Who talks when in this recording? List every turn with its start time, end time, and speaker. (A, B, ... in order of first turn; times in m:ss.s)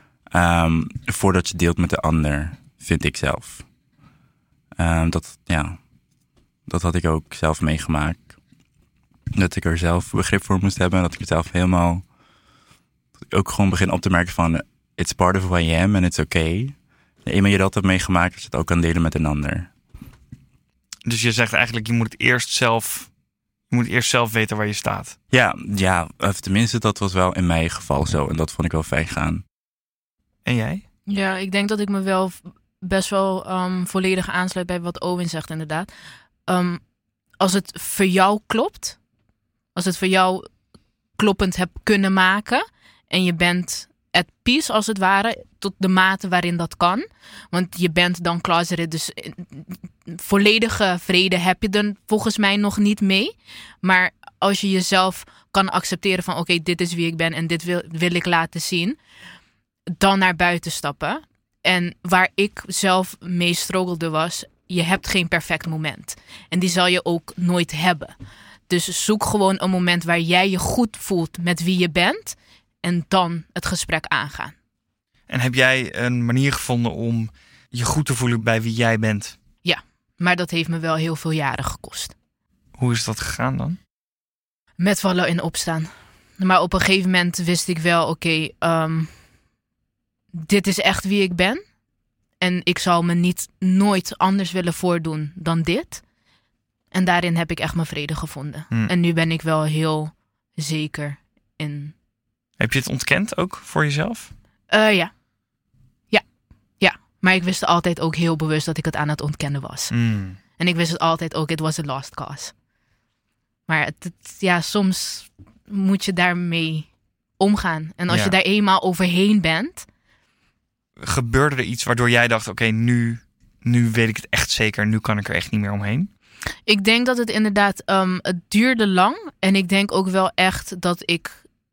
0:00.3-0:03.6 A
0:04.8-0:05.8 A
0:06.7-0:08.3 A
0:09.4-0:12.0 A
0:13.3-0:19.7 A
0:21.0-0:23.1 B
0:23.7-0:25.2 B
0:25.3-0:29.4 A
0:30.4-0:30.8 B
0:31.1-0:35.9 C
0:36.5-0:36.8 C
0:37.4-0:39.0 C
0:39.8-0:40.5 C
0:41.2-0:59.0 C
1:00.0-1:08.1 C
1:08.7-1:14.5 C
1:15.3-1:19.4 B
1:19.6-1:22.1 C
1:22.8-1:23.8 B
1:24.8-1:29.1 C
1:30.3-1:31.6 C
1:32.4-1:36.0 C
1:36.9-1:41.9 C
1:42.6-1:44.3 B
1:44.7-1:45.1 C
1:46.8-1:50.0 C
1:49.9-1:50.4 B
1:50.6-1:52.5 C
1:53.7-1:56.9 C
1:57.4-1:59.9 C
1:58.1-1:58.4 B
2:01.0-2:06.1 B
2:06.7-2:11.4 C